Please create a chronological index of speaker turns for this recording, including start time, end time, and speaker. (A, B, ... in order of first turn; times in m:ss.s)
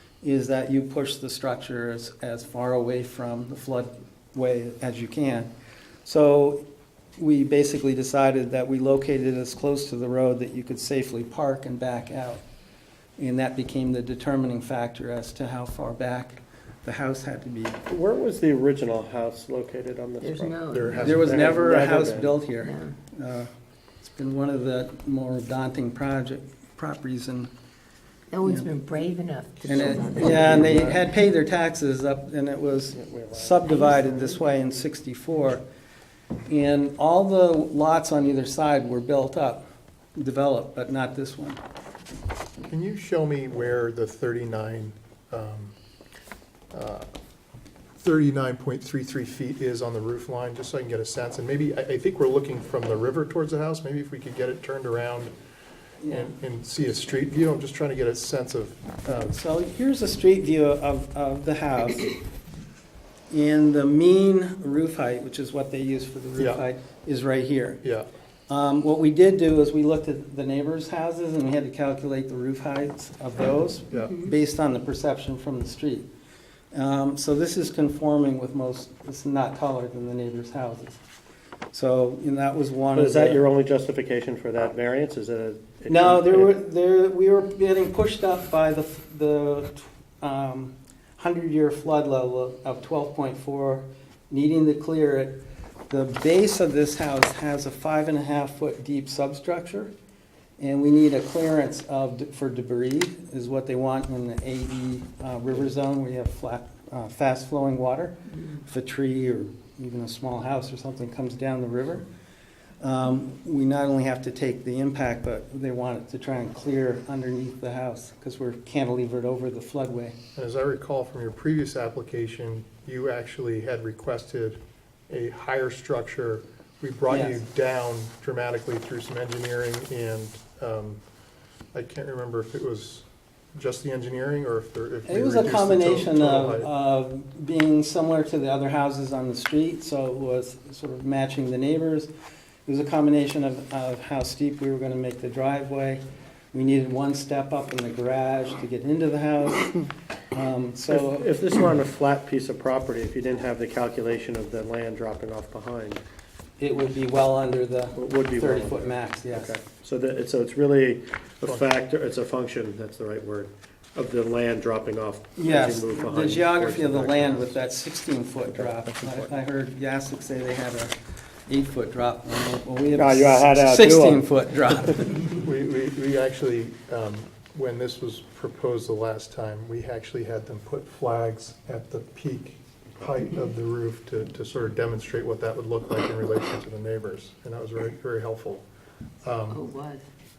0:00.2-0:05.5 A
0:06.0-0:06.6 A
0:07.2-0:12.4 A
0:13.2-0:17.8 A
0:17.9-0:22.4 B
0:20.2-0:21.2 C
0:20.7-0:21.3 D
0:20.9-0:23.5 A
0:22.6-0:22.9 C
0:24.0-0:27.5 A
0:28.3-0:31.0 C
0:29.6-0:35.6 A
0:32.9-0:34.8 B
0:36.4-0:39.6 A
0:40.2-0:41.6 A
0:42.7-0:45.7 D
0:46.7-0:47.1 D
0:48.0-0:55.3 D
0:56.0-0:56.3 A
0:56.1-0:59.3 D
0:59.1-1:02.2 A
1:03.3-1:07.8 A
1:06.4-1:06.6 D
1:08.5-1:16.1 A
1:13.9-1:14.2 D
1:16.7-1:21.0 A
1:21.7-1:23.4 A
1:22.9-1:26.5 B
1:25.9-1:39.9 A
1:40.6-1:52.0 A
1:52.8-2:00.2 A
2:00.4-2:11.0 D
2:07.1-2:07.4 A
2:11.7-2:16.7 D
2:15.0-2:22.1 A
2:22.6-2:29.8 A
2:30.3-2:31.3 A
2:30.9-2:36.0 B
2:36.6-2:39.5 A
2:37.9-2:47.6 B
2:45.4-2:50.9 A
2:48.5-2:49.3 B
2:51.5-2:55.3 A
2:52.9-2:54.2 B
2:55.3-3:08.6 D
3:09.2-3:09.6 D
3:09.5-3:10.0 C